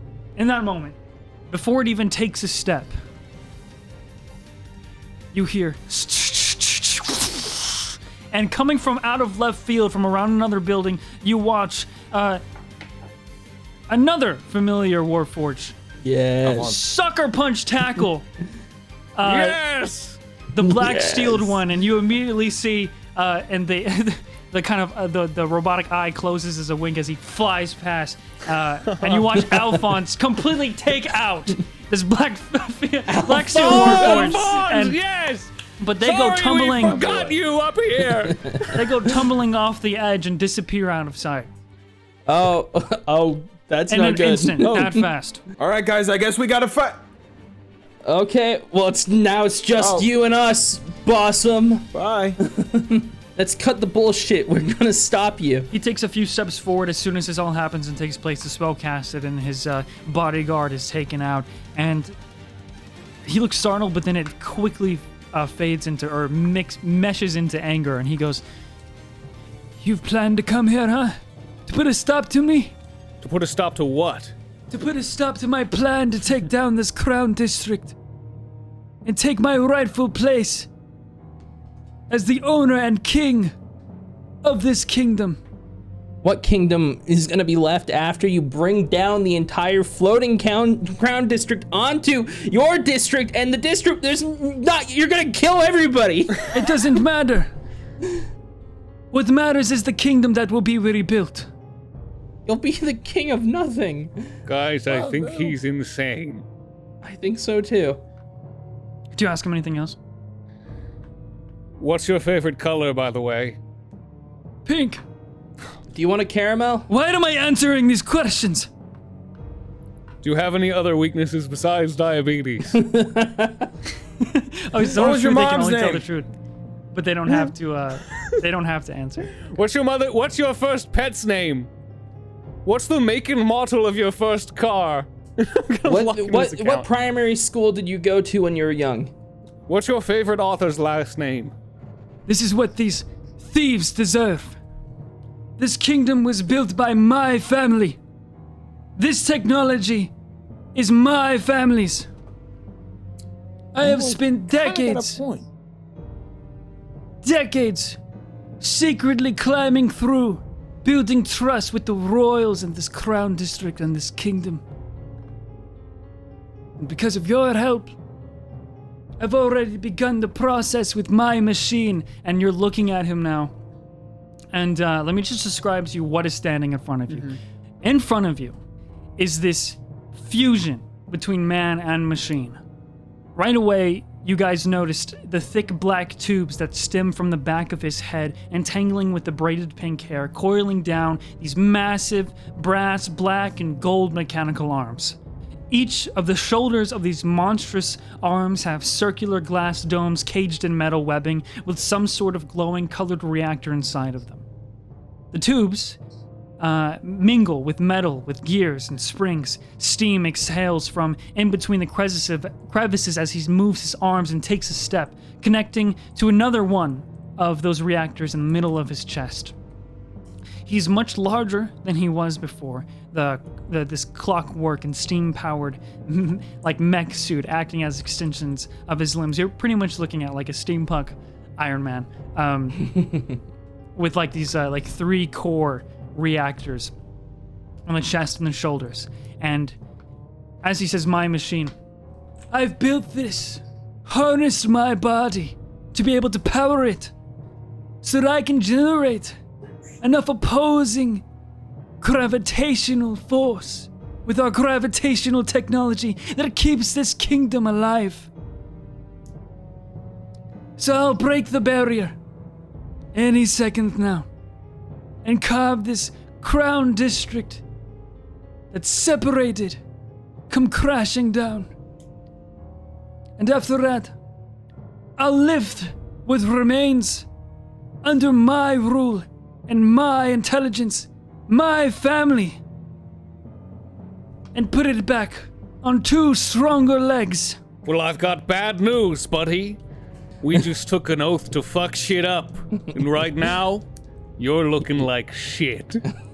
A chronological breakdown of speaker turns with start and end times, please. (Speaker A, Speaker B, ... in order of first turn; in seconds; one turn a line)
Speaker A: 0.4-0.9
Speaker A: 1.5-2.9
Speaker A: 5.3-12.4
Speaker A: 13.9-15.8
Speaker B: 16.0-16.7
Speaker C: 16.4-16.8
Speaker A: 16.6-18.2
Speaker A: 19.1-19.6
Speaker D: 19.2-20.2
Speaker A: 20.5-35.0
Speaker B: 20.7-21.6
Speaker D: 28.9-29.3
Speaker B: 33.1-34.3
Speaker D: 33.5-35.5
Speaker A: 35.8-37.0
Speaker D: 36.0-38.7
Speaker C: 36.8-37.4
Speaker B: 38.2-38.9
Speaker A: 38.7-41.5
Speaker B: 42.3-45.0
Speaker A: 43.9-45.4
Speaker C: 45.6-47.0
Speaker B: 48.0-55.7
Speaker C: 49.8-50.1
Speaker C: 51.9-52.4
Speaker A: 55.7-62.1
Speaker A: 63.2-68.4
Speaker A: 69.8-72.7
Speaker D: 73.2-74.3
Speaker A: 74.7-77.9
Speaker A: 79.0-80.7
Speaker A: 82.1-83.5
Speaker A: 84.4-85.4
Speaker B: 86.2-96.6
Speaker A: 96.5-97.5
Speaker A: 99.1-101.5
Speaker B: 102.5-104.2
Speaker D: 104.5-106.4
Speaker C: 104.9-105.5
Speaker B: 107.0-108.0
Speaker A: 109.1-110.0
Speaker D: 111.8-113.6
Speaker A: 114.7-115.0
Speaker B: 115.9-116.9
Speaker A: 116.9-118.7
Speaker D: 120.2-122.8
Speaker B: 122.7-123.7
Speaker A: 124.2-126.3
Speaker C: 124.8-126.0
Speaker A: 126.9-129.3
Speaker D: 129.4-131.7
Speaker D: 132.6-136.9
Speaker B: 135.8-139.1
Speaker D: 139.7-141.5
Speaker A: 142.3-144.6
Speaker A: 145.6-148.0
Speaker A: 148.9-150.1
Speaker A: 150.7-152.1
Speaker A: 153.7-155.2
Speaker C: 153.8-155.5
Speaker A: 157.2-158.0
Speaker A: 158.6-164.6
Speaker A: 166.8-167.9
Speaker A: 169.2-173.5
Speaker A: 174.5-177.3
Speaker D: 177.1-177.4
Speaker A: 177.8-178.6
Speaker A: 179.2-182.6
Speaker A: 183.3-195.2
Speaker A: 195.7-204.4
Speaker A: 205.3-206.0
Speaker A: 206.6-219.5
Speaker A: 220.7-232.9
Speaker A: 233.9-236.9
Speaker A: 237.9-239.8
Speaker A: 240.6-241.7
Speaker A: 242.5-247.1
Speaker A: 248.0-249.4
Speaker A: 250.0-251.2
Speaker A: 252.0-258.3
Speaker A: 260.8-262.1
Speaker A: 263.1-264.3
Speaker A: 265.2-267.6
Speaker A: 268.7-269.8
Speaker A: 270.5-271.7
Speaker A: 273.4-274.1
Speaker A: 275.2-277.3
Speaker A: 278.0-282.6
Speaker A: 284.5-287.6
Speaker D: 287.8-289.8
Speaker D: 290.4-293.9
Speaker D: 294.4-296.0